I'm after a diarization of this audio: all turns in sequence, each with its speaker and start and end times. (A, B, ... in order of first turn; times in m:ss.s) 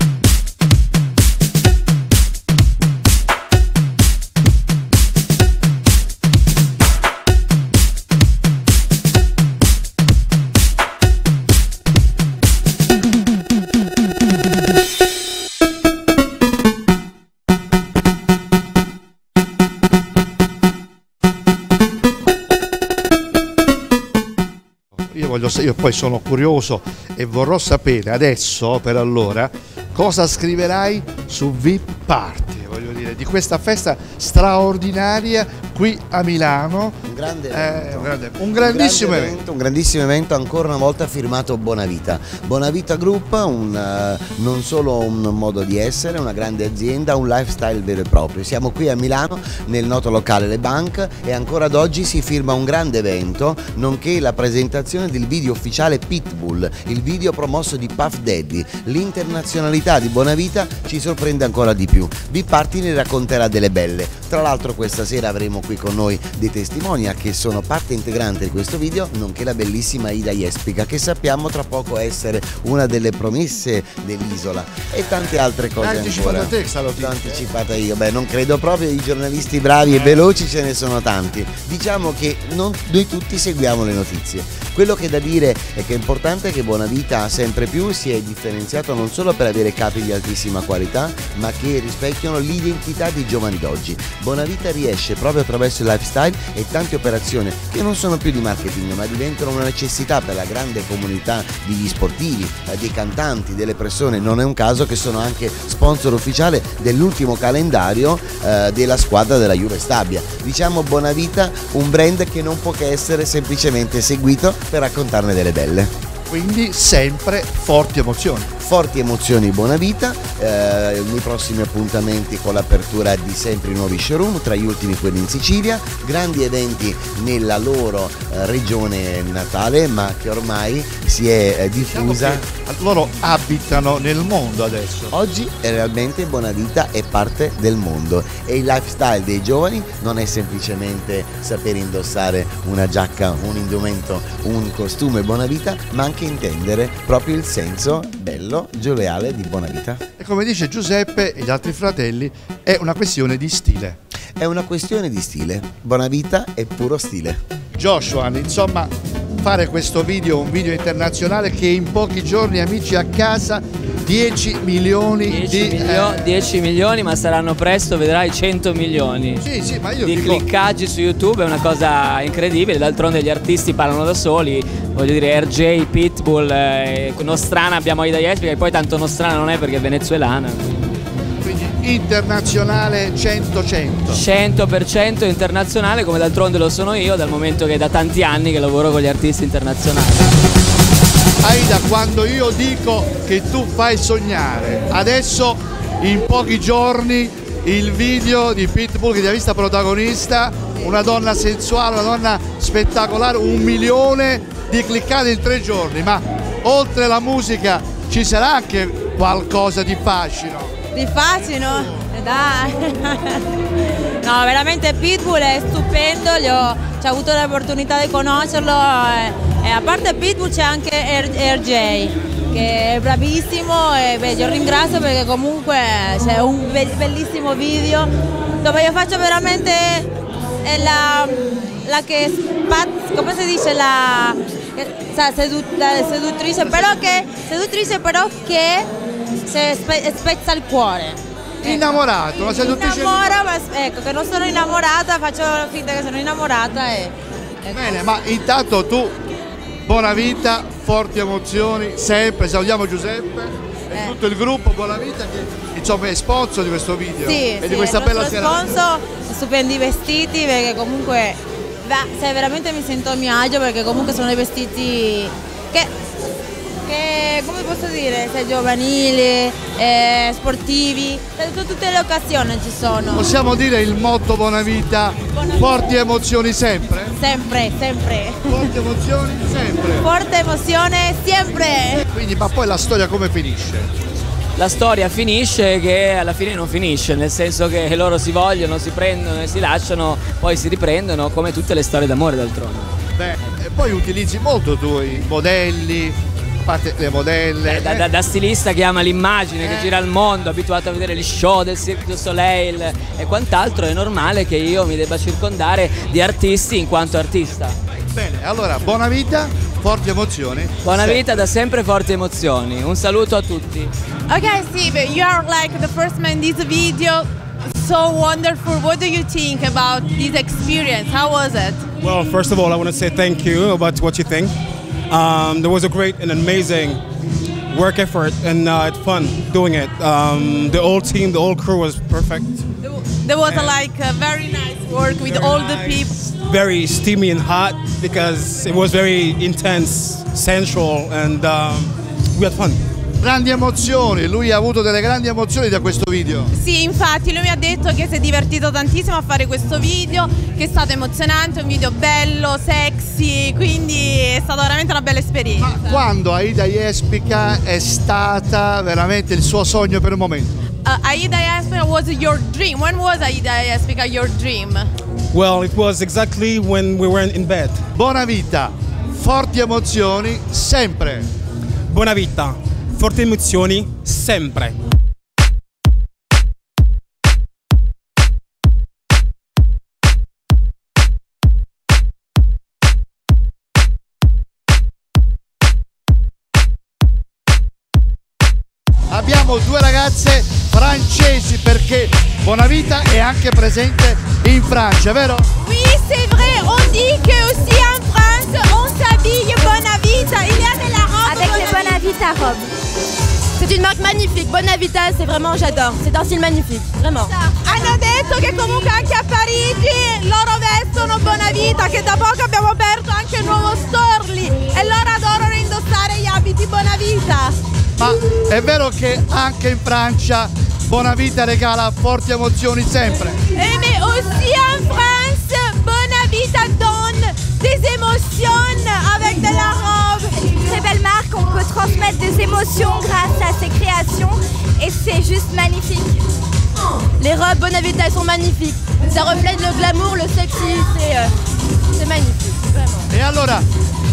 0:25.1-0:37.0 A
0:37.0-1:55.9 B
0:37.5-0:39.4 A
1:15.8-1:17.4 A
1:56.3-1:58.5 A
1:58.6-2:12.4 B
2:11.8-2:15.1 A
2:15.1-2:30.0 B
2:30.2-2:34.0 A
2:34.4-2:37.4 B
2:37.8-2:46.2 A
2:45.3-2:49.4 C
2:49.4-2:50.4 A
2:50.0-3:00.8 C
3:01.4-3:04.2 A
3:04.1-3:10.4 C
3:11.4-3:30.7 A
3:30.9-3:33.4 D
3:31.4-3:32.1 A
3:34.2-3:48.1 D
3:48.6-3:50.1 D
3:50.6-3:58.9 D
3:59.5-4:08.1 D
4:01.6-4:03.5 A
4:07.7-4:09.2 A
4:09.9-4:18.8 A
4:17.2-4:25.9 D
4:26.8-4:33.3 D
4:33.1-4:37.2 A
4:35.4-4:35.9 D
4:37.2-4:38.7 D
4:38.5-4:40.1 A
4:40.0-4:42.0 D
4:42.0-4:43.9 A
4:44.6-4:52.9 C
4:53.2-4:58.1 A
4:57.7-5:07.8 C
4:59.6-4:59.9 A
5:08.1-5:11.2 A
5:10.8-5:13.9 C
5:14.3-5:21.8 E
5:22.0-5:24.5 F
5:25.1-5:27.0 F
5:27.7-5:32.7 F
5:32.8-5:36.3 E
5:33.5-5:33.8 A
5:35.2-5:42.8 F
5:43.2-5:46.5 A
5:46.5-5:56.0 E
5:55.6-6:00.6 A
6:00.8-6:04.9 E
6:05.3-6:07.8 F
6:08.0-6:11.3 A
6:11.9-6:14.8 F
6:29.1-6:35.5 A
6:35.6-6:42.0 E
6:41.2-6:42.7 G
6:43.6-6:46.3 E
6:46.9-6:47.3 D
6:47.5-6:57.6 E
6:58.0-7:03.4 A
7:03.6-7:10.5 E
7:10.6-7:16.2 G
7:19.1-7:21.1 E
7:23.1-7:23.7 A